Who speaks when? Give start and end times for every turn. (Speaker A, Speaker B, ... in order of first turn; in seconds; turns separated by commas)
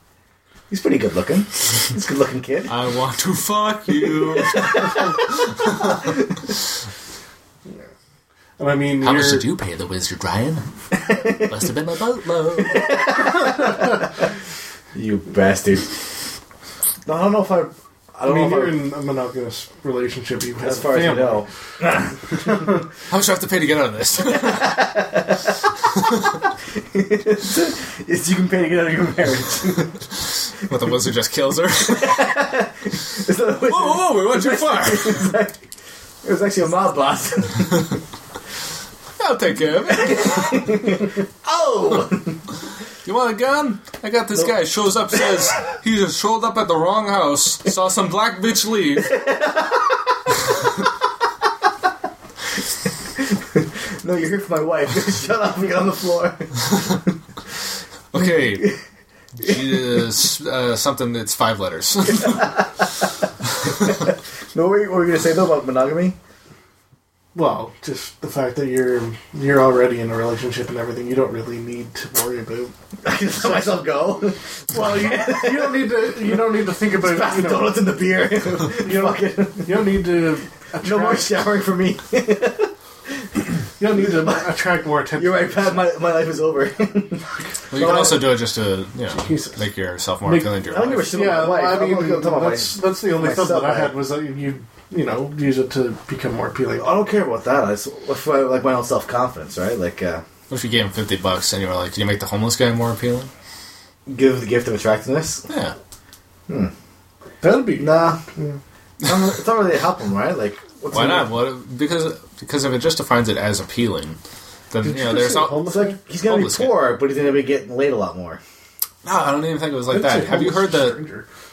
Speaker A: 0.7-2.7, Speaker B: 2.7-6.1, Speaker A: 4.4-5.0, Speaker C: 8.6-9.5, Speaker B: 9.0-13.0, Speaker A: 12.6-13.7, Speaker A: 14.9-15.9, Speaker A: 17.1-18.8, Speaker C: 18.2-21.5, Speaker A: 20.6-22.1, Speaker C: 22.4-22.7, Speaker B: 23.1-24.8, Speaker A: 24.4-25.6, Speaker B: 25.9-26.2, Speaker A: 26.7-29.9, Speaker B: 30.6-32.3, Speaker A: 31.9-35.6, Speaker B: 33.7-35.3, Speaker A: 36.2-38.0, Speaker B: 39.2-40.8, Speaker A: 39.9-42.4, Speaker B: 43.0-49.2, Speaker A: 49.1-50.0, Speaker A: 53.2-57.0, Speaker B: 58.1-58.7, Speaker B: 59.4-62.6, Speaker A: 62.1-62.6, Speaker A: 63.6-66.2, Speaker C: 67.3-72.7, Speaker A: 73.0-80.0, Speaker C: 74.7-77.8, Speaker C: 78.6-81.4, Speaker A: 80.8-83.4, Speaker C: 83.8-85.8, Speaker A: 84.1-84.3, Speaker A: 85.2-88.2, Speaker B: 87.7-91.1, Speaker C: 89.1-89.6, Speaker C: 90.2-97.0, Speaker A: 90.7-94.0, Speaker A: 96.8-100.2, Speaker B: 100.5-103.3, Speaker A: 104.1-105.5, Speaker B: 105.5-105.8, Speaker C: 107.4-108.6, Speaker A: 107.8-108.2, Speaker A: 109.0-111.3, Speaker B: 110.9-114.2, Speaker B: 114.7-116.8, Speaker C: 114.8-116.0, Speaker A: 115.7-118.4, Speaker B: 119.0-121.0, Speaker C: 119.9-121.3